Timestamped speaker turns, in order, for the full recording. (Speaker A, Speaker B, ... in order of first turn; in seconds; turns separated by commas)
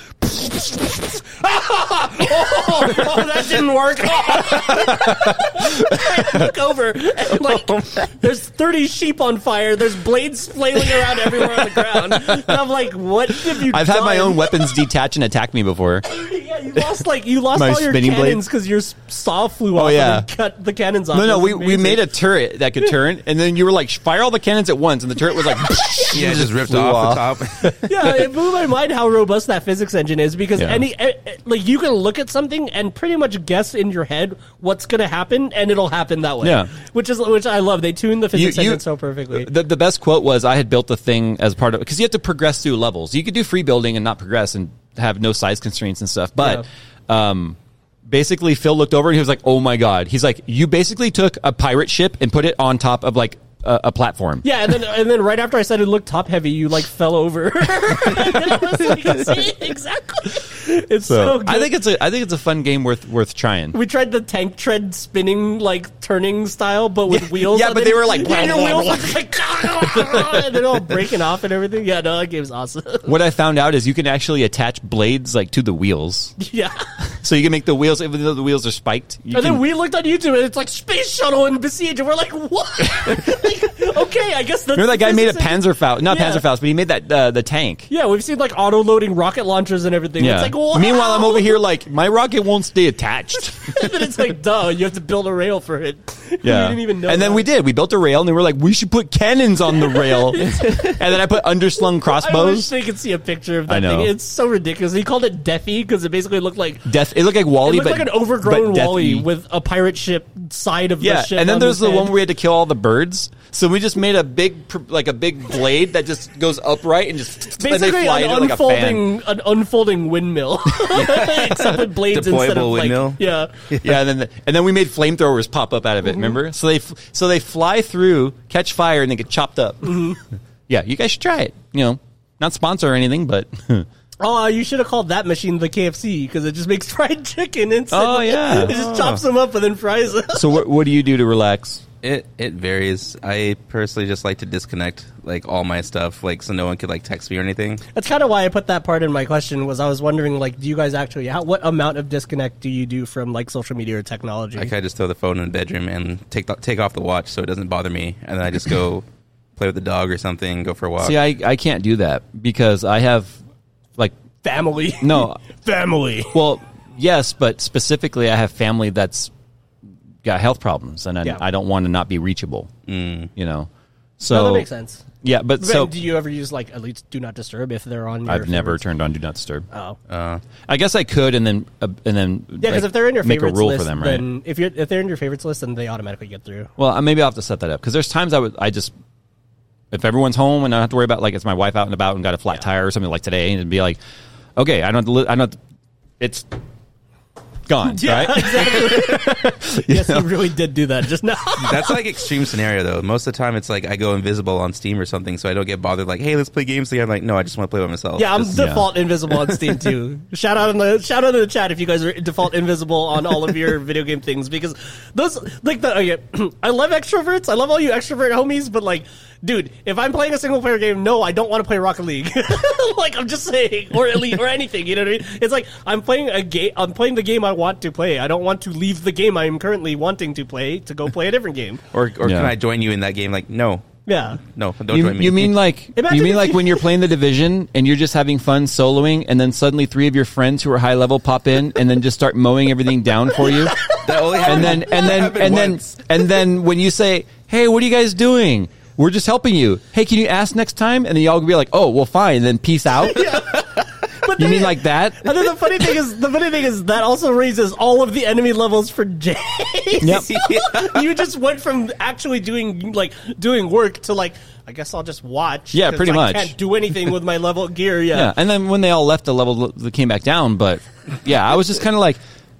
Speaker A: 0.2-14.8, Speaker B: 4.5-6.3, Speaker C: 7.5-8.1, Speaker B: 11.7-12.6, Speaker B: 13.4-16.0, Speaker A: 16.1-22.1, Speaker B: 17.5-18.4, Speaker B: 19.7-20.3, Speaker B: 21.1-27.8, Speaker C: 26.1-27.8, Speaker A: 27.8-39.5, Speaker B: 30.6-30.8, Speaker B: 36.4-36.7, Speaker B: 38.3-38.8, Speaker B: 39.3-54.4, Speaker A: 46.4-46.6, Speaker A: 54.4-61.7, Speaker B: 61.1-63.8, Speaker A: 63.7-73.1, Speaker B: 67.1-70.6, Speaker B: 73.0-76.3, Speaker A: 76.4-76.8, Speaker B: 77.2-79.6, Speaker A: 79.3-86.4, Speaker B: 84.7-87.9, Speaker A: 87.9-91.6, Speaker B: 90.2-94.0, Speaker A: 93.6-97.5, Speaker B: 96.4-102.7, Speaker A: 99.7-101.0, Speaker A: 102.0-106.9, Speaker B: 103.7-104.1, Speaker B: 106.8-109.3, Speaker A: 107.6-112.1, Speaker B: 111.0-119.1, Speaker A: 117.6-123.6, Speaker C: 120.9-124.0, Speaker B: 123.8-130.1, Speaker A: 129.8-130.2, Speaker B: 130.7-133.9, Speaker A: 134.2-140.6, Speaker B: 137.9-138.7, Speaker C: 138.6-139.2, Speaker B: 140.3-141.8, Speaker C: 142.0-147.8, Speaker A: 147.9-154.7, Speaker C: 154.6-159.0, Speaker C: 159.6-161.2, Speaker B: 161.0-163.3, Speaker A: 164.4-166.4, Speaker B: 165.0-165.4, Speaker B: 166.3-169.3, Speaker B: 170.2-172.7, Speaker C: 172.9-173.3, Speaker B: 173.3-173.7, Speaker B: 174.2-174.7, Speaker A: 174.3-175.0, Speaker B: 175.2-175.9, Speaker A: 175.6-178.8, Speaker B: 178.3-179.7, Speaker A: 179.7-180.0, Speaker C: 180.1-180.4, Speaker B: 180.7-184.2, Speaker A: 182.6-186.7, Speaker B: 186.8-188.9, Speaker B: 189.9-194.0, Speaker B: 194.6-195.6, Speaker B: 196.2-196.5, Speaker B: 197.7-200.3, Speaker A: 197.9-202.0, Speaker C: 201.6-208.6, Speaker A: 208.2-231.8, Speaker B: 208.5-208.9, Speaker C: 231.9-233.9, Speaker B: 232.2-232.5, Speaker A: 234.1-234.4, Speaker C: 234.4-235.6, Speaker B: 234.9-243.8, Speaker A: 235.9-236.9, Speaker A: 243.4-245.3, Speaker C: 244.0-246.0, Speaker B: 244.4-253.4, Speaker A: 253.1-268.3, Speaker B: 254.3-255.5, Speaker B: 260.0-260.3, Speaker C: 260.3-261.0, Speaker B: 265.7-266.5, Speaker B: 268.1-272.2